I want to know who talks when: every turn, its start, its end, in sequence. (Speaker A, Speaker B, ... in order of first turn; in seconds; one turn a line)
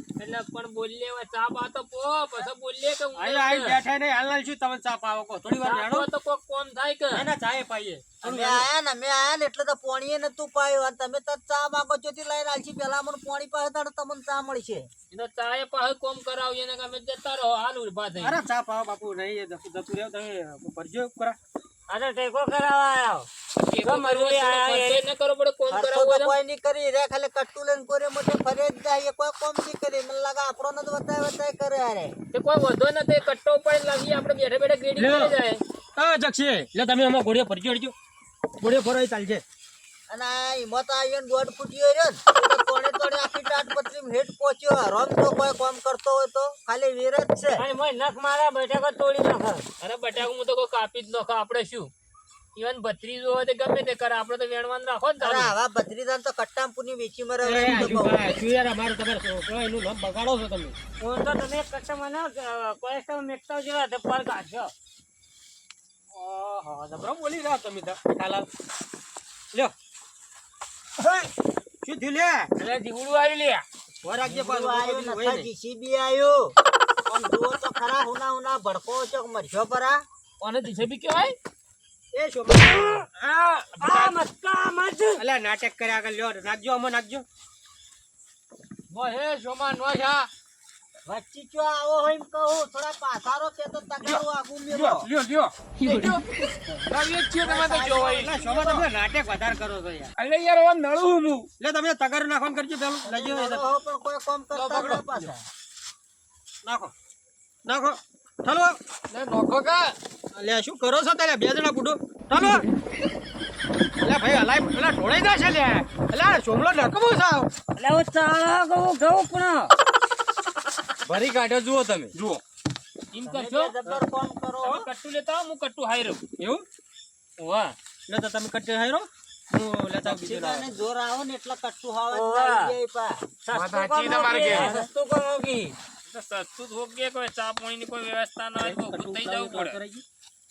Speaker A: 0.2-3.8
Speaker B: 3.1-6.1
Speaker A: 5.5-7.3
Speaker B: 7.1-8.7
Speaker C: 8.2-14.9
Speaker A: 15.1-18.4
Speaker B: 18.2-21.4
Speaker D: 21.9-23.3
Speaker A: 23.7-26.4
Speaker D: 23.8-25.0
Speaker C: 25.7-32.1
Speaker A: 32.4-35.6
Speaker B: 35.0-35.4
Speaker B: 36.0-37.9
Speaker B: 38.6-39.4
Speaker C: 40.1-47.6
Speaker D: 47.6-49.6
Speaker A: 49.8-51.9
Speaker A: 52.5-55.5
Speaker C: 55.2-58.2
Speaker B: 57.4-60.8
Speaker D: 61.0-64.7
Speaker B: 66.1-68.5
Speaker B: 71.8-72.5
Speaker A: 72.6-73.6
Speaker B: 74.0-75.5
Speaker C: 74.2-76.5
Speaker C: 77.1-80.0
Speaker A: 80.4-81.3
Speaker B: 82.1-83.0
Speaker A: 83.2-84.0
Speaker D: 83.8-85.2
Speaker B: 85.2-87.2
Speaker E: 88.9-90.3
Speaker C: 91.0-95.1
Speaker F: 94.0-98.4
Speaker B: 97.4-100.1
Speaker F: 100.2-101.5
Speaker B: 101.6-103.7
Speaker C: 103.0-105.4
Speaker E: 104.5-105.0
Speaker B: 106.6-106.9
Speaker B: 107.6-108.8
Speaker E: 109.1-109.9
Speaker B: 110.3-112.7
Speaker B: 114.0-117.5
Speaker D: 117.8-119.7
Speaker E: 121.0-122.1
Speaker A: 123.1-123.8
Speaker C: 123.2-124.9
Speaker A: 124.6-126.2
Speaker B: 126.4-126.6
Speaker D: 127.4-127.7
Speaker B: 128.1-130.7
Speaker C: 130.0-133.2
Speaker D: 132.1-132.7
Speaker D: 133.4-135.7
Speaker F: 133.5-134.7
Speaker C: 134.5-134.8
Speaker A: 136.1-139.8
Speaker B: 138.6-140.0